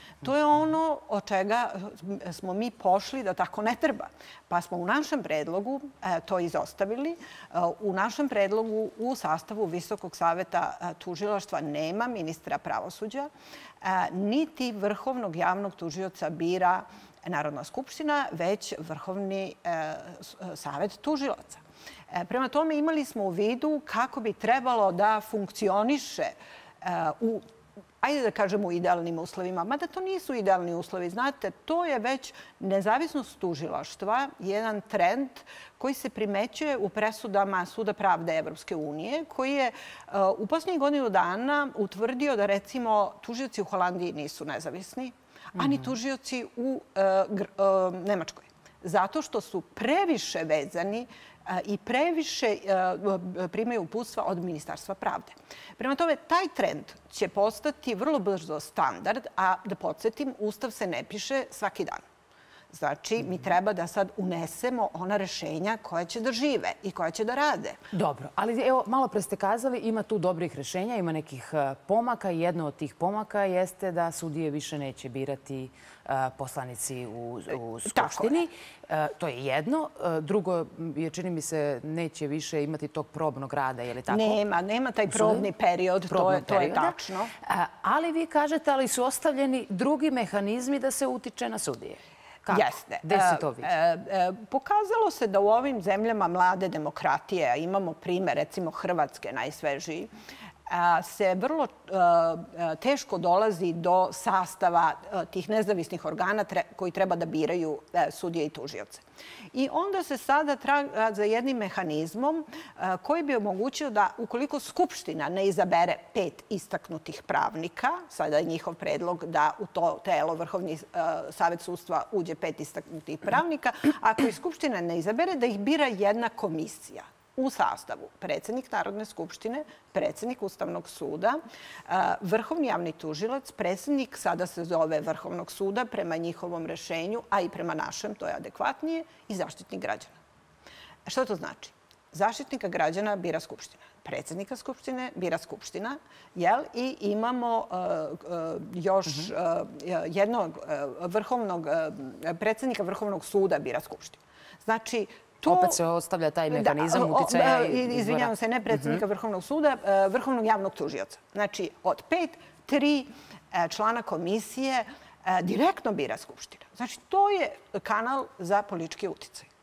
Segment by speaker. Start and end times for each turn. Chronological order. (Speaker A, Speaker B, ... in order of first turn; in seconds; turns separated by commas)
Speaker A: 0.2-13.3, Speaker A: 13.8-27.4, Speaker A: 28.0-62.0, Speaker B: 45.6-45.8, Speaker A: 62.7-67.8, Speaker B: 67.9-84.4, Speaker A: 77.9-78.4, Speaker A: 84.1-87.3, Speaker B: 85.1-85.5, Speaker B: 86.1-93.7, Speaker A: 92.5-100.1, Speaker A: 100.7-140.2, Speaker A: 141.1-155.8, Speaker B: 155.4-159.0, Speaker A: 156.5-169.5